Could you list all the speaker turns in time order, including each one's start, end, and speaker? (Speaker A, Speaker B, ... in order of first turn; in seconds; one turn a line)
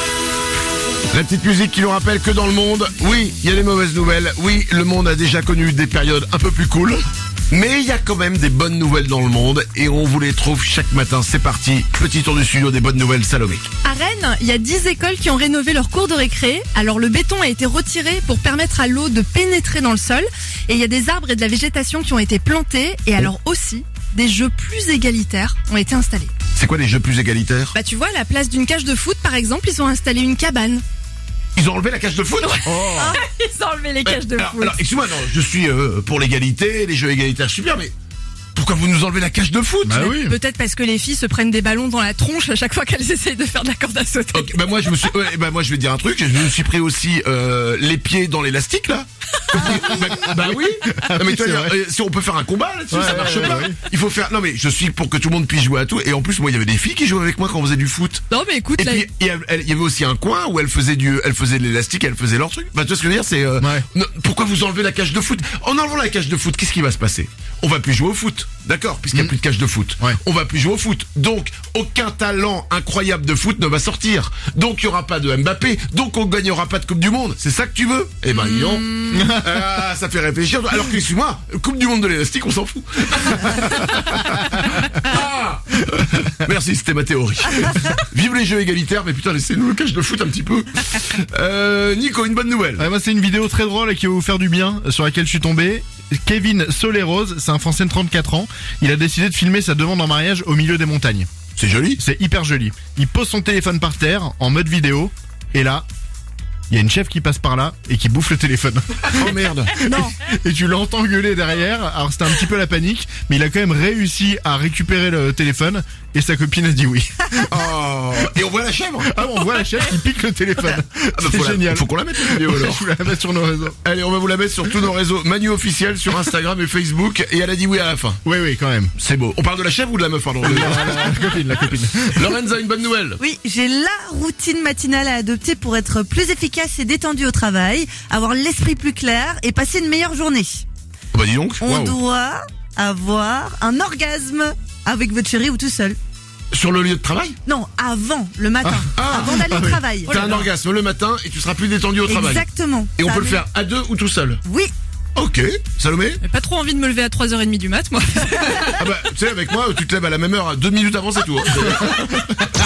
Speaker A: 1.1-13.7
Speaker B: 13.8-26.3
Speaker A: 26.5-27.7
Speaker B: 27.7-30.8
Speaker A: 31.6-32.9
Speaker B: 32.4-34.8
Speaker C: 32.6-33.1
Speaker D: 33.0-33.2
Speaker A: 34.0-37.9
Speaker A: 38.5-40.0
Speaker C: 39.8-40.4
Speaker B: 39.9-45.1
Speaker A: 44.3-58.2
Speaker C: 49.5-51.8
Speaker C: 52.9-53.8
Speaker B: 58.3-59.1
Speaker A: 58.8-92.9
Speaker C: 63.6-63.9
Speaker B: 78.3-79.3
Speaker C: 79.1-79.7
Speaker C: 92.8-101.3
Speaker A: 101.6-102.0
Speaker C: 102.0-105.8
Speaker C: 106.7-117.6
Speaker A: 109.1-109.8
Speaker D: 109.8-110.1
Speaker A: 117.5-119.2
Speaker C: 119.0-123.8
Speaker A: 121.2-122.9
Speaker A: 123.8-128.2
Speaker C: 128.2-128.9
Speaker A: 129.0-133.2
Speaker C: 130.4-132.3
Speaker D: 133.2-140.6
Speaker A: 141.1-142.0
Speaker D: 141.6-146.0
Speaker A: 146.5-147.4
Speaker D: 147.4-150.1
Speaker C: 148.6-148.9
Speaker A: 149.0-154.4
Speaker C: 149.4-149.8
Speaker B: 150.0-150.5
Speaker D: 152.1-153.4
Speaker D: 154.4-154.7
Speaker A: 155.2-156.2
Speaker B: 156.2-158.8
Speaker A: 158.8-162.5